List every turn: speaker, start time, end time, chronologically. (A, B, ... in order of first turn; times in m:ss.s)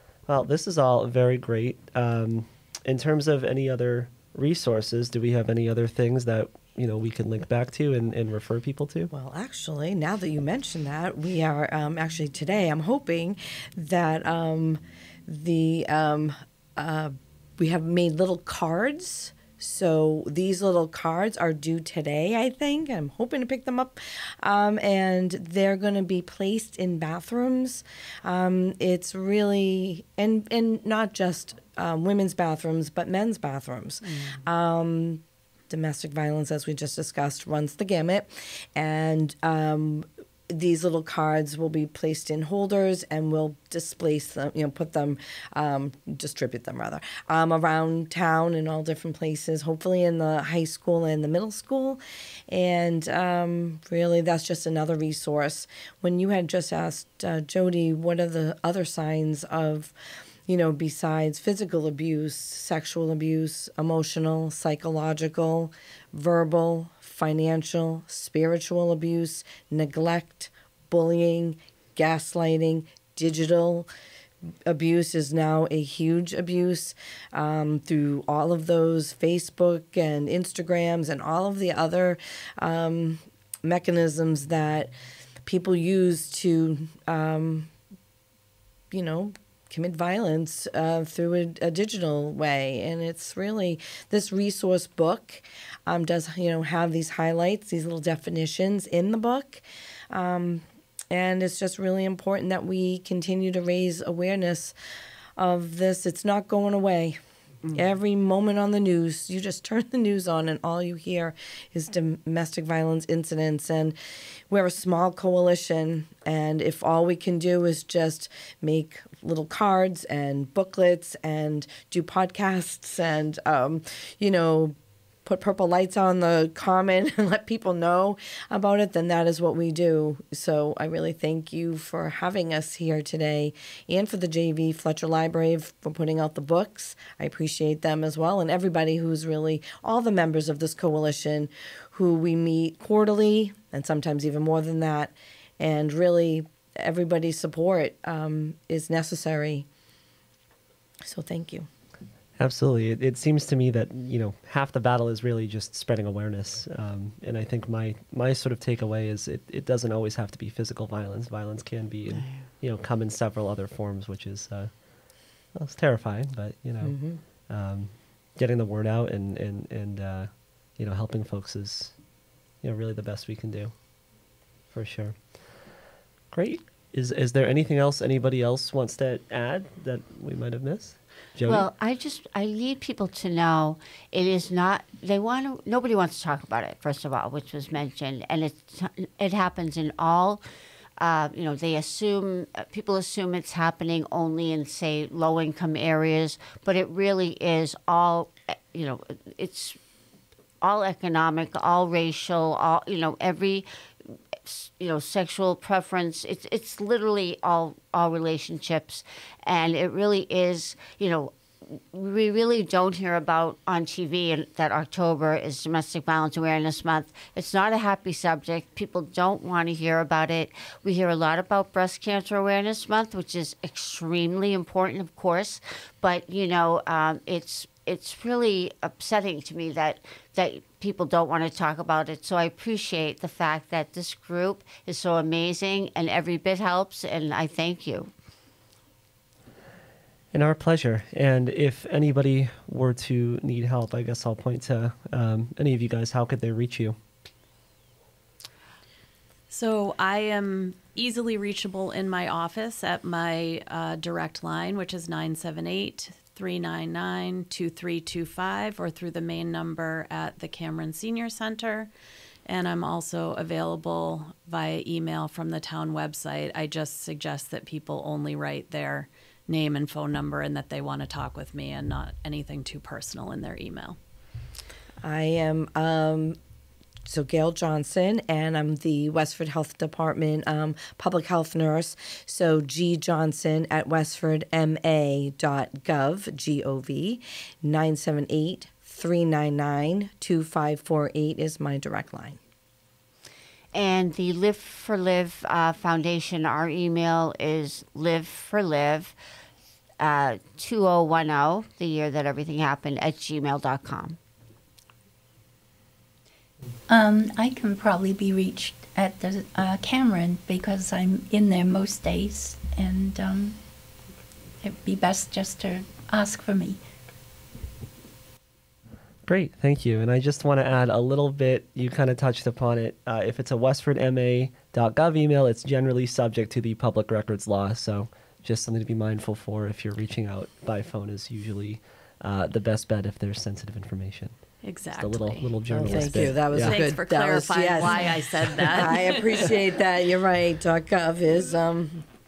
0:00.2-0:09.1 A
0:09.1-0:59.9 B
1:00.5-1:13.9 B
1:14.6-1:24.9 B
1:25.4-1:27.7 B
1:28.9-1:44.7 B
1:45.4-1:47.2 B
1:47.7-1:54.0 B
1:54.5-2:29.7 B
2:31.0-2:31.7 B
2:32.4-2:52.0 A
2:46.8-2:47.2 B
2:52.6-2:54.1 A
2:54.7-2:55.6 A
2:56.3-3:01.7 A
3:01.4-3:10.4 C
3:11.0-3:19.8 C
3:20.6-3:58.1 C
4:00.3-4:07.0 A
4:09.5-4:21.9 D
4:22.4-4:34.0 D
4:35.0-4:36.4 B
4:37.0-4:52.4 B
4:53.7-4:59.1 C
5:00.0-5:04.2 C
5:06.9-5:13.6 E
5:14.6-5:16.8 E
5:19.2-5:34.3 A
5:34.6-5:39.6 D
5:35.0-5:36.8 A
5:35.7-5:42.1 B